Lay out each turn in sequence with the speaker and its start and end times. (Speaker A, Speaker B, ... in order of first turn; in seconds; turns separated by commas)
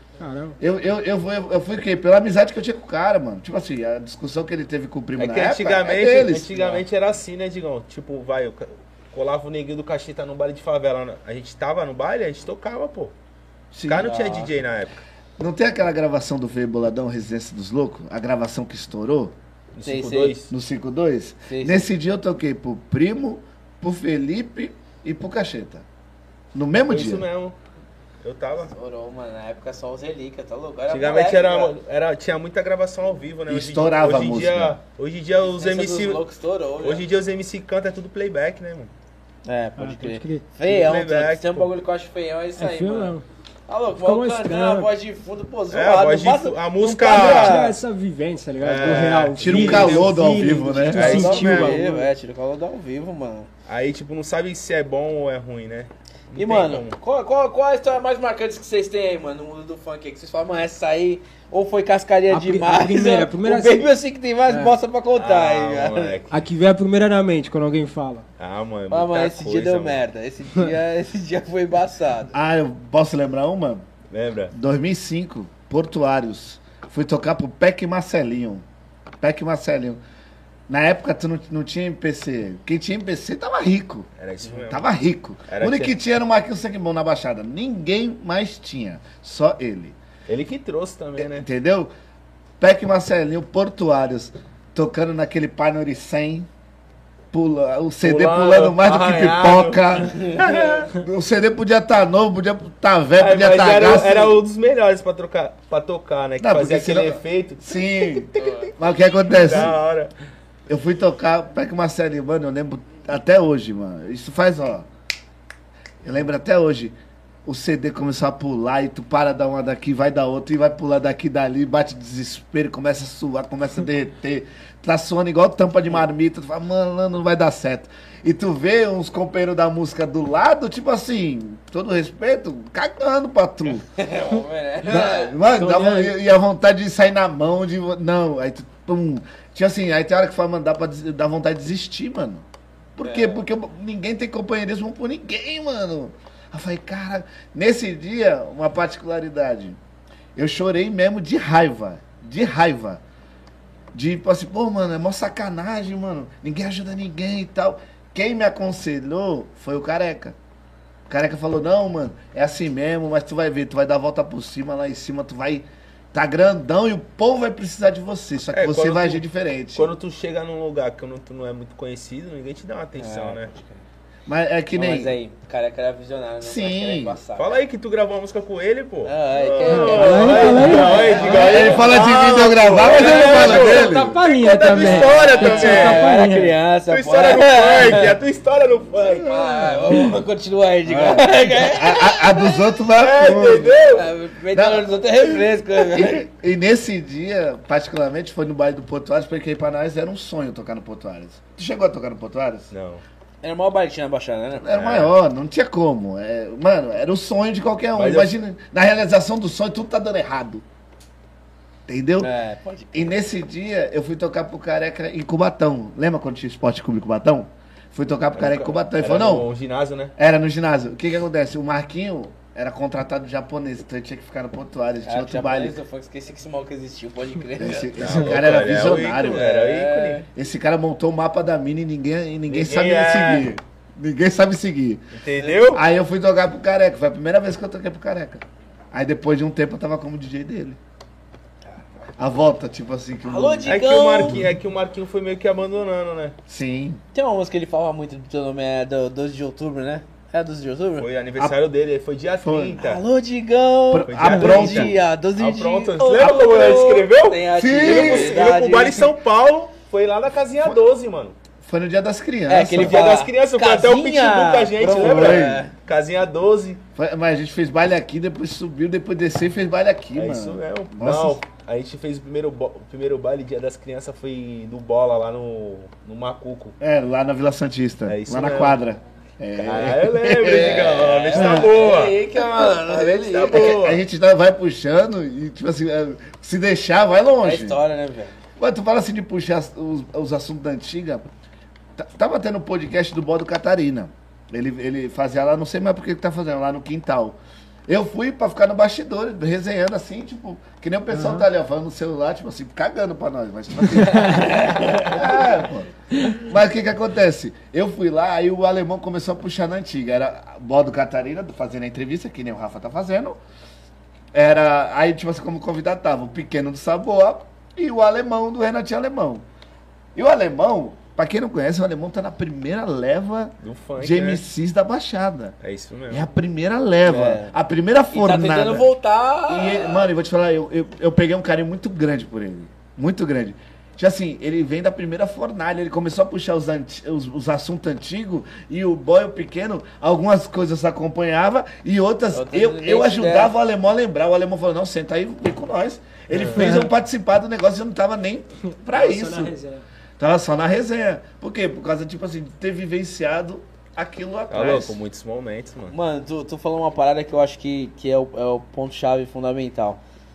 Speaker A: 0.2-0.6, Speaker B: 0.6-6.8, Speaker C: 5.2-13.1, Speaker B: 13.7-14.1, Speaker C: 13.8-15.0, Speaker D: 14.0-14.5, Speaker B: 15.4-19.3, Speaker C: 19.7-20.5, Speaker D: 19.8-20.4, Speaker B: 20.5-25.8, Speaker D: 21.4-21.9, Speaker B: 26.5-27.2, Speaker C: 26.8-27.5, Speaker C: 28.2-28.7, Speaker D: 28.7-31.8, Speaker C: 30.9-36.2, Speaker B: 33.5-34.8, Speaker D: 35.4-37.0, Speaker C: 36.8-38.9, Speaker D: 39.4-43.1, Speaker A: 39.8-40.4, Speaker C: 40.6-41.7, Speaker A: 42.6-43.2, Speaker D: 43.7-47.8, Speaker A: 44.0-44.9, Speaker C: 45.7-47.7, Speaker A: 47.0-52.1, Speaker C: 48.6-50.2, Speaker B: 49.4-51.3, Speaker C: 50.9-51.8, Speaker D: 51.0-53.5, Speaker C: 53.6-57.0, Speaker D: 56.4-66.2, Speaker A: 62.3-63.9, Speaker A: 64.5-64.7, Speaker C: 65.2-66.4, Speaker A: 66.3-68.2, Speaker C: 68.4-70.0, Speaker D: 68.9-72.3, Speaker B: 72.3-73.8, Speaker C: 74.1-74.5, Speaker B: 74.5-78.6, Speaker B: 79.2-80.0, Speaker B: 80.7-84.1, Speaker C: 84.2-84.8, Speaker B: 84.7-90.0, Speaker C: 85.5-85.9, Speaker C: 90.3-91.5, Speaker B: 91.2-91.9, Speaker B: 92.6-96.5, Speaker B: 97.3-104.4, Speaker C: 98.0-100.9, Speaker D: 100.2-100.8, Speaker C: 103.2-110.1, Speaker B: 106.4-109.8, Speaker B: 110.7-114.9, Speaker B: 116.0-133.9, Speaker D: 133.8-135.4, Speaker B: 134.8-142.4, Speaker A: 135.6-136.2, Speaker B: 142.9-149.8, Speaker D: 143.0-143.4, Speaker B: 150.3-153.0, Speaker B: 153.9-160.3, Speaker B: 161.1-169.9, Speaker C: 168.5-173.5, Speaker D: 173.0-173.8, Speaker B: 174.2-175.2, Speaker D: 174.7-177.5, Speaker B: 176.4-177.2, Speaker C: 177.3-186.1, Speaker D: 179.0-183.7, Speaker A: 179.7-181.2, Speaker B: 181.2-184.2, Speaker A: 183.0-186.5, Speaker D: 184.5-188.1, Speaker C: 186.9-189.4, Speaker D: 189.2-192.5, Speaker A: 189.9-190.1, Speaker B: 191.6-193.7, Speaker C: 192.9-194.1, Speaker D: 193.9-196.2, Speaker B: 194.5-194.9, Speaker B: 195.7-202.7, Speaker C: 202.7-203.0, Speaker D: 203.4-204.8, Speaker B: 204.6-210.6, Speaker C: 204.7-205.1, Speaker C: 207.9-208.3, Speaker B: 211.9-212.3, Speaker D: 212.2-213.2, Speaker B: 212.9-219.5, Speaker C: 218.3-220.1, Speaker B: 220.2-225.8, Speaker D: 225.0-230.2, Speaker B: 227.6-229.5, Speaker C: 228.0-230.2, Speaker B: 230.3-235.2, Speaker C: 232.5-233.5, Speaker C: 235.1-235.8, Speaker B: 235.7-240.8, Speaker B: 242.2-243.8, Speaker D: 243.2-244.5, Speaker C: 243.7-246.3, Speaker B: 246.5-247.0, Speaker D: 247.1-251.1, Speaker C: 251.0-253.0, Speaker B: 252.4-252.8, Speaker D: 252.8-259.1, Speaker B: 253.9-254.9, Speaker C: 254.1-261.3, Speaker B: 257.6-258.4, Speaker B: 261.6-263.0, Speaker D: 262.5-265.7, Speaker C: 262.7-266.8, Speaker B: 264.9-265.6, Speaker B: 266.9-271.4, Speaker C: 270.1-276.8, Speaker B: 276.8-281.7, Speaker C: 278.1-278.8, Speaker C: 279.6-282.2, Speaker D: 280.8-283.7, Speaker C: 282.9-284.0, Speaker B: 283.4-287.8, Speaker D: 287.4-288.4, Speaker B: 288.6-291.2, Speaker B: 292.0-313.4, Speaker A: 301.1-301.4, Speaker D: 304.2-305.2, Speaker B: 314.3-319.4, Speaker B: 320.1-325.5, Speaker C: 323.6-324.4, Speaker C: 325.6-326.3, Speaker B: 326.1-328.9, Speaker D: 327.0-327.5, Speaker D: 328.1-330.1, Speaker B: 329.5-349.5, Speaker D: 342.3-343.5, Speaker C: 346.3-346.6, Speaker A: 346.5-346.9, Speaker A: 348.9-349.8, Speaker B: 350.2-355.0, Speaker C: 354.5-355.9, Speaker D: 355.9-360.0